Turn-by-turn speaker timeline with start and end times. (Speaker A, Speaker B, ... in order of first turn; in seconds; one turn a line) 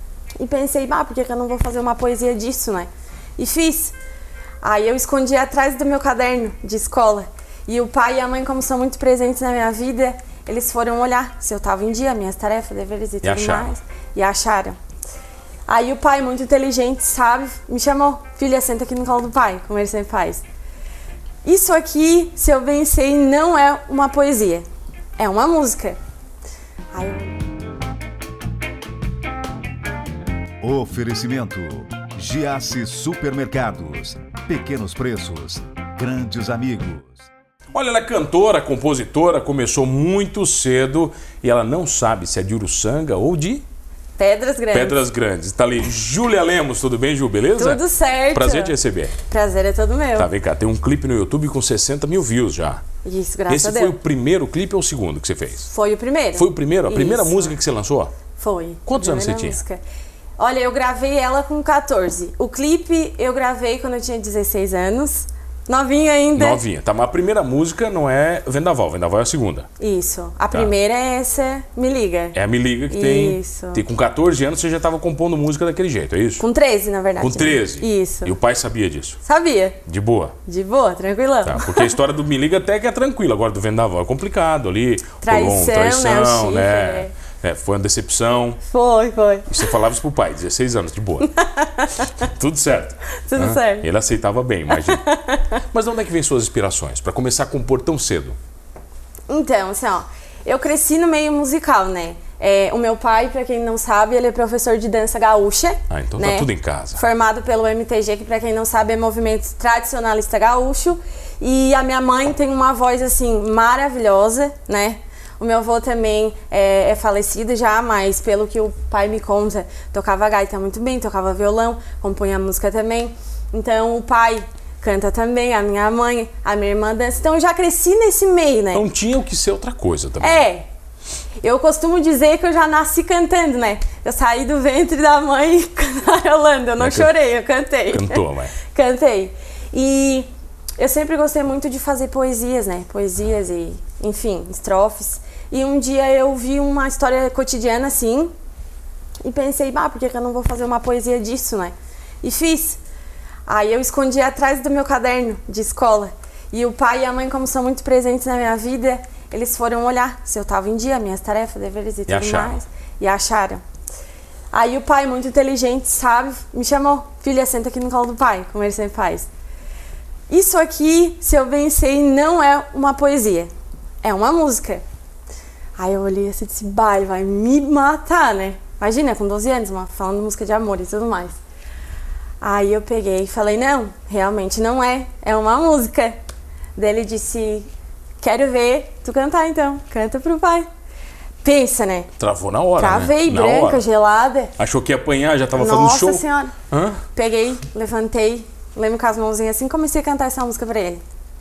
Speaker A: 0.4-3.9
Speaker A: 4.6-14.8
Speaker B: 13.2-13.7
Speaker A: 15.7-20.4
Speaker A: 21.4-24.6
Speaker A: 25.2-26.0
Speaker A: 26.9-27.3
Speaker C: 30.6-37.3
Speaker B: 37.7-43.6
Speaker A: 44.2-45.0
Speaker B: 44.7-47.8
Speaker A: 47.6-48.8
Speaker B: 48.3-49.2
Speaker A: 49.3-50.3
Speaker B: 50.2-52.8
Speaker A: 53.0-54.0
Speaker B: 53.5-55.7
Speaker A: 55.7-57.5
Speaker B: 56.4-58.1
Speaker A: 58.4-59.8
Speaker B: 58.9-59.6
Speaker A: 60.4-66.6
Speaker B: 66.3-69.7
Speaker A: 69.8-72.4
Speaker B: 72.3-76.4
Speaker A: 72.9-73.8
Speaker A: 76.4-78.3
Speaker B: 77.2-79.2
Speaker A: 79.2-79.8
Speaker B: 79.9-80.4
Speaker A: 80.5-82.0
Speaker B: 81.4-88.6
Speaker A: 85.2-87.1
Speaker A: 88.7-89.5
Speaker B: 89.5-91.3
Speaker A: 91.2-92.1
Speaker B: 92.2-95.0
Speaker A: 93.2-93.9
Speaker A: 94.8-95.6
Speaker B: 95.7-98.4
Speaker A: 99.3-128.8
Speaker B: 105.9-107.0
Speaker B: 128.7-130.5
Speaker A: 130.2-130.7
Speaker A: 131.4-148.3
Speaker B: 136.8-137.1
Speaker B: 137.9-138.6
Speaker A: 149.2-152.8
Speaker A: 153.5-163.6
Speaker B: 162.1-162.6
Speaker A: 164.5-169.3
Speaker A: 170.3-173.5
Speaker A: 174.0-174.8
Speaker A: 175.8-181.4
Speaker A: 182.4-186.2
Speaker A: 186.8-187.7
Speaker A: 188.2-190.7
Speaker A: 191.4-192.1
Speaker B: 192.2-193.8
Speaker A: 192.8-194.5
Speaker B: 194.6-197.0
Speaker A: 195.6-196.6
Speaker A: 197.2-201.0